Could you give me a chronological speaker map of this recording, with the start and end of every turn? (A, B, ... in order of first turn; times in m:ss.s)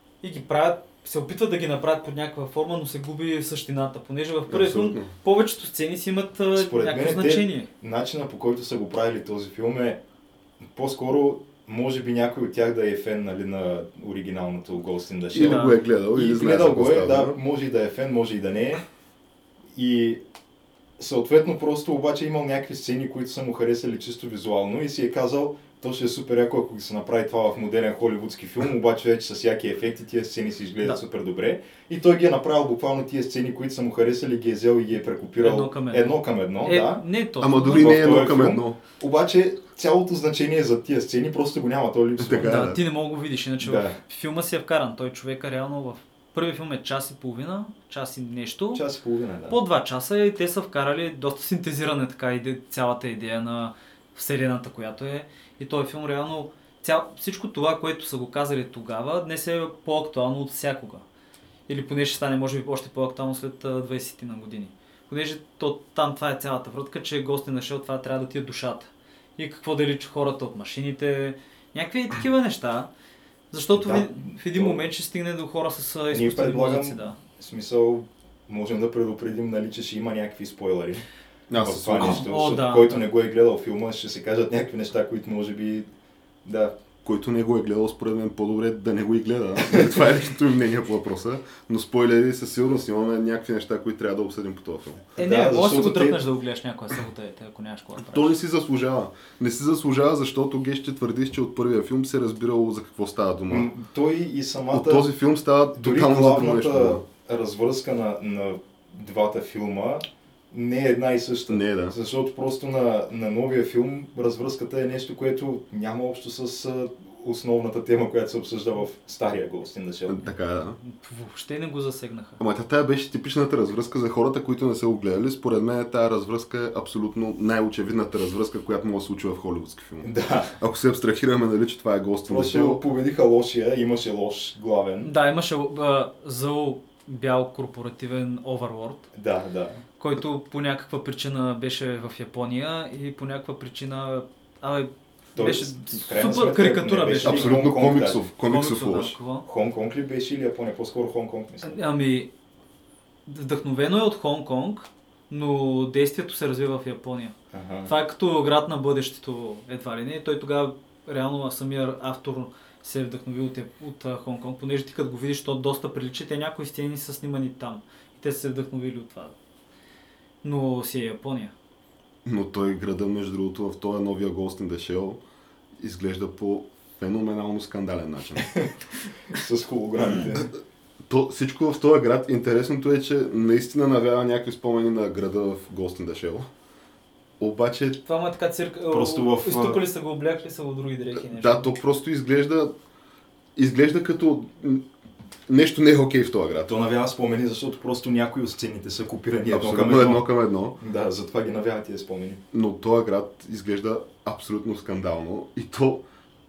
0:00.2-0:07.7 A
0:04.5-0:05.1 B
0:06.6-0:10.0 C
0:10.6-0:18.8 C
0:15.3-0:17.3 B
0:15.4-0:15.8 A
0:19.8-0:20.2 C
0:21.0-0:37.0 C
0:35.4-0:38.2 A
0:37.4-0:38.8 B
0:37.7-0:42.6 C
0:42.2-0:42.8 B
0:42.4-0:48.8 A
0:43.6-0:44.0 C
0:48.7-0:49.6 C
0:49.5-1:01.0 A
1:01.7-1:12.9 A
1:13.5-1:17.2 A
1:13.8-1:14.8 C
1:16.1-1:21.0 C
1:21.5-1:22.3 B
1:21.6-1:25.9 C
1:22.0-1:23.1 A
1:26.4-1:26.8 C
1:27.0-1:35.0 B
1:35.2-1:38.3 A
1:35.2-1:36.2 C
1:38.0-1:43.7 B
1:43.5-1:45.1 C
1:44.7-1:47.0 B
1:45.8-2:00.2 C
1:51.5-1:52.0 B
2:00.1-2:00.8 B
2:00.8-2:02.4 A
2:02.4-2:12.8 B
2:10.0-2:10.6 C
2:12.3-2:15.1 C
2:15.0-2:19.0 A
2:19.1-2:19.8 C
2:20.0-2:27.6 A
2:25.4-2:28.3 C
2:27.2-2:29.2 B
2:28.4-2:29.5 A
2:29.4-2:31.8 C
2:31.6-2:32.3 A
2:33.3-2:37.3 A
2:37.5-2:37.9 C
2:37.9-2:49.4 A
2:50.4-2:51.5 A
2:52.2-2:55.2 B
2:55.8-2:58.5 B
2:58.4-2:58.7 C
2:59.3-3:00.5 C
3:01.1-3:06.5 B
3:07.4-3:08.0 B
3:08.0-3:11.8 A
3:08.9-3:09.8 C
3:11.2-3:12.7 B
3:13.6-3:14.8 B
3:15.5-3:16.7 B
3:16.7-3:22.4 C
3:19.5-3:20.8 B
3:22.5-3:26.0 B